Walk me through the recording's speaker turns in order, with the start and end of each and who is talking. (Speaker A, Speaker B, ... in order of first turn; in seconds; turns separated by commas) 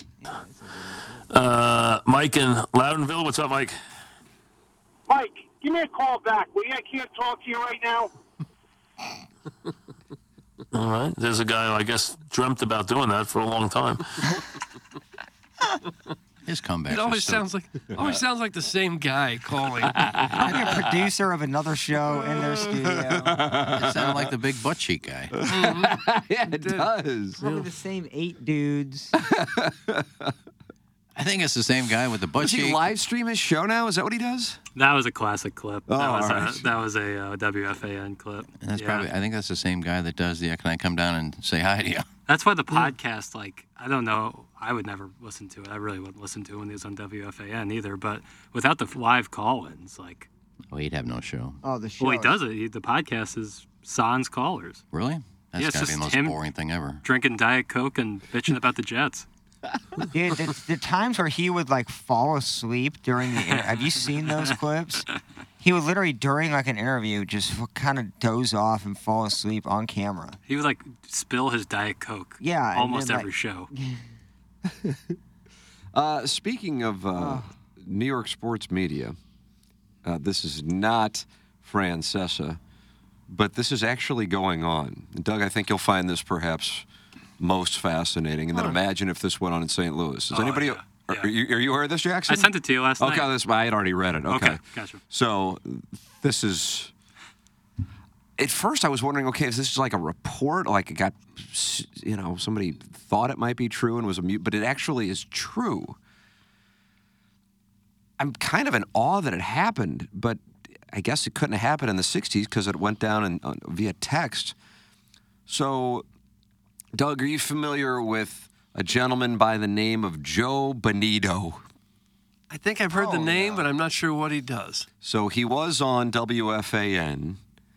Speaker A: 0.2-1.2, Speaker B: 1.3-3.7, Speaker C: 5.1-8.1, Speaker B: 10.7-14.0, Speaker D: 16.4-17.4, Speaker E: 16.9-20.1, Speaker F: 20.0-20.7, Speaker A: 20.4-23.4, Speaker F: 22.3-24.3, Speaker D: 23.7-25.3, Speaker F: 25.4-27.4, Speaker E: 25.4-26.0, Speaker E: 26.5-26.9, Speaker A: 27.4-29.1, Speaker E: 27.4-27.7, Speaker F: 29.2-30.3, Speaker D: 31.1-32.9, Speaker F: 32.4-34.6, Speaker G: 34.8-39.1, Speaker F: 35.9-36.7, Speaker D: 38.5-42.1, Speaker G: 42.3-50.3, Speaker D: 50.7-51.6, Speaker A: 51.6-52.4, Speaker G: 52.0-54.8, Speaker D: 54.9-57.0, Speaker G: 55.5-56.4, Speaker G: 57.0-59.2, Speaker A: 60.1-65.0, Speaker A: 65.6-70.4, Speaker G: 70.5-73.7, Speaker A: 72.4-74.0, Speaker F: 74.7-75.0, Speaker F: 75.9-79.2, Speaker A: 77.1-77.5, Speaker F: 80.0-82.6, Speaker F: 83.3-86.8, Speaker F: 87.4-96.9, Speaker E: 88.5-88.8, Speaker G: 90.3-91.3, Speaker G: 92.3-93.3, Speaker G: 94.3-95.0, Speaker F: 98.4-106.0, Speaker F: 108.2-114.5, Speaker F: 115.5-116.0, Speaker F: 116.9-121.6, Speaker E: 122.5-124.9, Speaker A: 123.0-123.5, Speaker F: 125.0-127.4